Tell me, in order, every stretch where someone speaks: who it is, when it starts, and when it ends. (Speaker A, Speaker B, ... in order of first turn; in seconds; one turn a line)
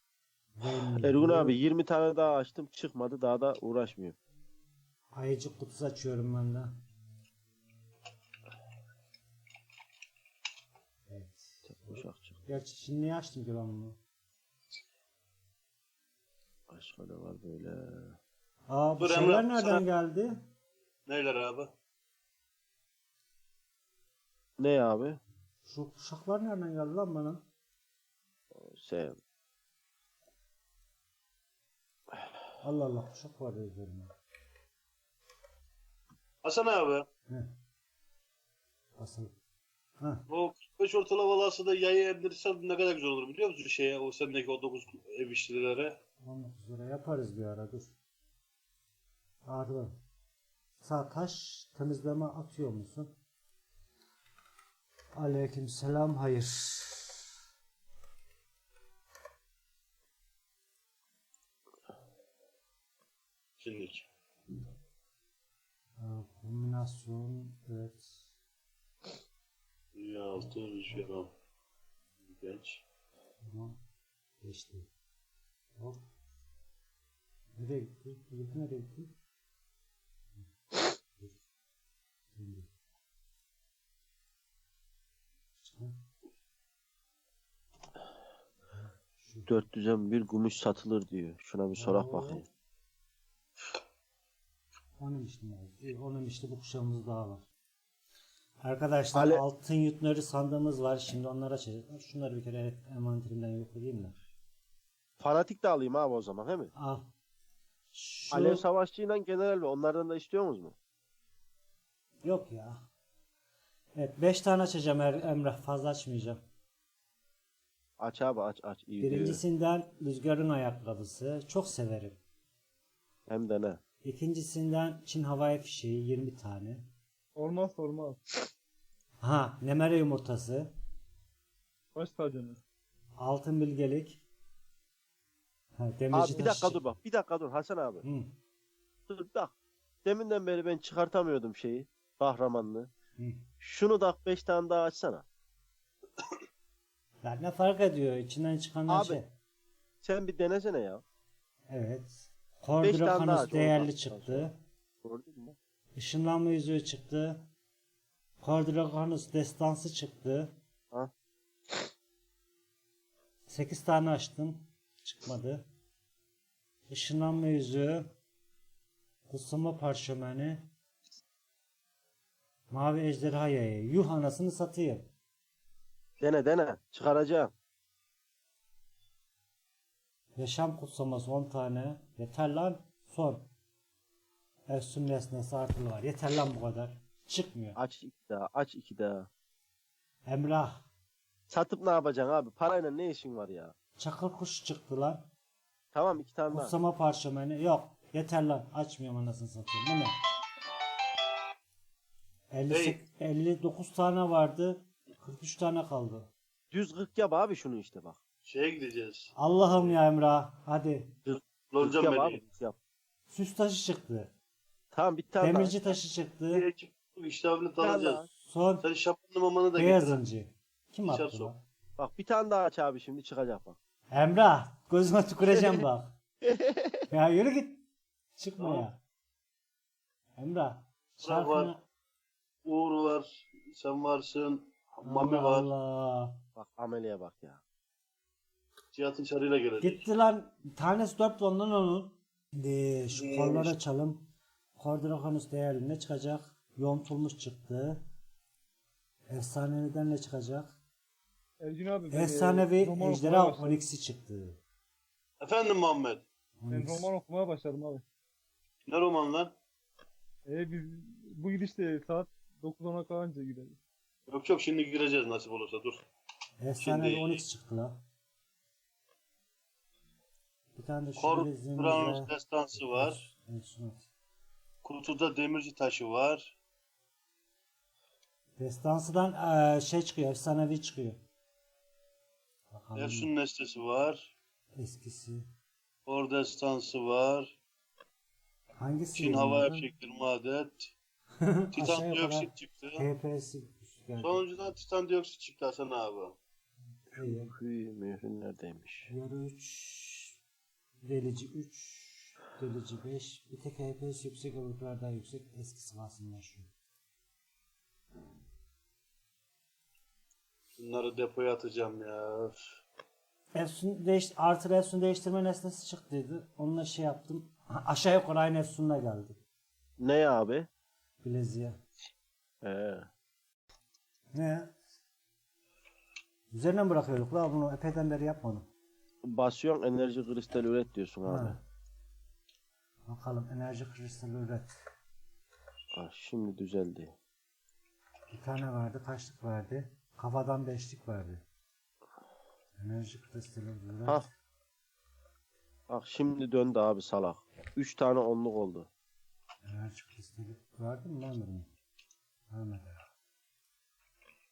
Speaker A: 0.6-1.6
Speaker B: 1.0-4.2
Speaker A: 5.1-6.7
Speaker A: 11.1-14.0
Speaker B: 11.7-12.4
Speaker B: 16.7-18.2
Speaker A: 18.7-20.4
Speaker C: 19.0-19.8
Speaker C: 21.1-21.7
Speaker B: 24.6-25.2
Speaker A: 25.6-27.4
Speaker B: 28.5-29.2
Speaker A: 32.6-34.1
Speaker C: 36.4-37.1
Speaker A: 37.3-37.5
Speaker A: 39.0-39.3
Speaker A: 40.0-40.2
Speaker C: 40.3-45.9
Speaker A: 46.2-47.9
Speaker A: 49.4-50.0
Speaker A: 50.8-53.1
Speaker A: 55.1-57.2
Speaker C: 63.6-64.0
Speaker A: 66.0-68.3
Speaker C: 69.9-71.3
Speaker C: 72.3-72.8
Speaker A: 73.4-73.8
Speaker A: 74.4-74.9
Speaker A: 75.8-76.0
Speaker A: 77.5-79.1
Speaker A: 82.3-82.7
Speaker A: 85.6-86.0
Speaker A: 88.7-89.5
Speaker B: 89.5-92.5
Speaker A: 91.8-92.5
Speaker A: 95.0-97.5
Speaker A: 98.6-104.2
Speaker B: 99.1-99.4
Speaker B: 105.2-106.7
Speaker A: 106.8-107.1
Speaker A: 107.9-108.6
Speaker B: 108.3-110.7
Speaker A: 112.2-112.8
Speaker A: 113.9-116.4
Speaker B: 118.0-119.4
Speaker A: 119.0-122.2
Speaker B: 123.3-123.8
Speaker A: 124.0-126.9
Speaker D: 127.4-128.2
Speaker A: 129.2-130.7
Speaker D: 131.9-132.6
Speaker A: 133.2-134.2
Speaker A: 135.8-136.8
Speaker B: 136.1-138.0
Speaker A: 138.0-138.3
Speaker B: 139.1-139.5
Speaker B: 140.0-142.9
Speaker A: 143.2-143.4
Speaker B: 143.6-145.2
Speaker A: 147.2-149.3
Speaker B: 148.9-149.2
Speaker B: 150.0-151.0
Speaker A: 151.7-154.6
Speaker B: 152.8-154.5
Speaker B: 155.0-155.6
Speaker A: 155.9-157.4
Speaker A: 158.4-160.5
Speaker A: 163.5-165.7
Speaker A: 166.9-168.1
Speaker A: 169.3-170.7
Speaker A: 172.7-175.1
Speaker B: 176.2-177.5
Speaker A: 180.3-183.5
Speaker A: 184.7-187.8
Speaker B: 187.8-189.3
Speaker A: 190.3-190.8
Speaker B: 191.5-193.7
Speaker A: 194.0-195.3
Speaker B: 195.9-196.7
Speaker A: 196.5-200.1
Speaker A: 202.5-206.3
Speaker C: 202.7-203.0
Speaker B: 206.7-208.2
Speaker C: 208.4-210.0
Speaker A: 209.3-211.1
Speaker B: 211.2-212.8
Speaker C: 211.7-212.4
Speaker A: 213.3-214.3
Speaker B: 214.9-215.9
Speaker A: 215.4-216.7
Speaker C: 216.5-218.2
Speaker B: 217.8-218.3
Speaker A: 218.3-218.8
Speaker C: 218.8-220.2
Speaker A: 219.8-221.6
Speaker C: 221.0-221.5
Speaker B: 222.0-223.8
Speaker A: 224.1-226.1
Speaker B: 226.4-226.8
Speaker A: 227.1-227.8
Speaker A: 228.3-229.0
Speaker C: 228.6-228.8
Speaker A: 230.4-231.8
Speaker C: 231.2-231.7
Speaker C: 232.6-235.7
Speaker A: 235.0-236.4
Speaker B: 236.6-237.6
Speaker C: 238.9-240.0
Speaker A: 239.8-248.0
Speaker C: 243.1-243.7
Speaker A: 249.3-250.8
Speaker D: 251.6-253.8
Speaker A: 252.1-254.6
Speaker C: 255.4-256.2
Speaker A: 256.6-257.1
Speaker D: 256.7-258.0
Speaker C: 258.9-259.5
Speaker D: 260.4-263.8
Speaker C: 264.3-266.0
Speaker A: 266.6-268.0
Speaker C: 266.8-267.4
Speaker A: 270.7-274.1
Speaker C: 271.2-273.2
Speaker C: 274.8-276.5
Speaker A: 278.6-281.2
Speaker A: 282.7-283.3
Speaker C: 282.9-284.3
Speaker A: 284.8-285.5
Speaker C: 286.1-287.6
Speaker A: 288.8-289.9
Speaker C: 289.1-290.9
Speaker A: 291.4-294.7
Speaker C: 291.7-293.0
Speaker C: 294.2-296.3
Speaker A: 297.1-297.5
Speaker B: 297.1-299.1
Speaker A: 299.1-300.4
Speaker A: 301.0-306.7
Speaker C: 310.8-312.6
Speaker A: 313.5-319.4
Speaker B: 320.0-320.7
Speaker A: 321.2-321.8
Speaker B: 322.6-323.1
Speaker A: 324.3-324.8
Speaker A: 326.5-328.7
Speaker B: 329.2-331.6
Speaker A: 331.2-331.6
Speaker A: 333.1-334.7
Speaker B: 335.9-337.1
Speaker A: 338.3-341.4
Speaker A: 342.8-344.3
Speaker B: 345.9-348.9
Speaker A: 349.6-351.7
Speaker A: 352.5-353.0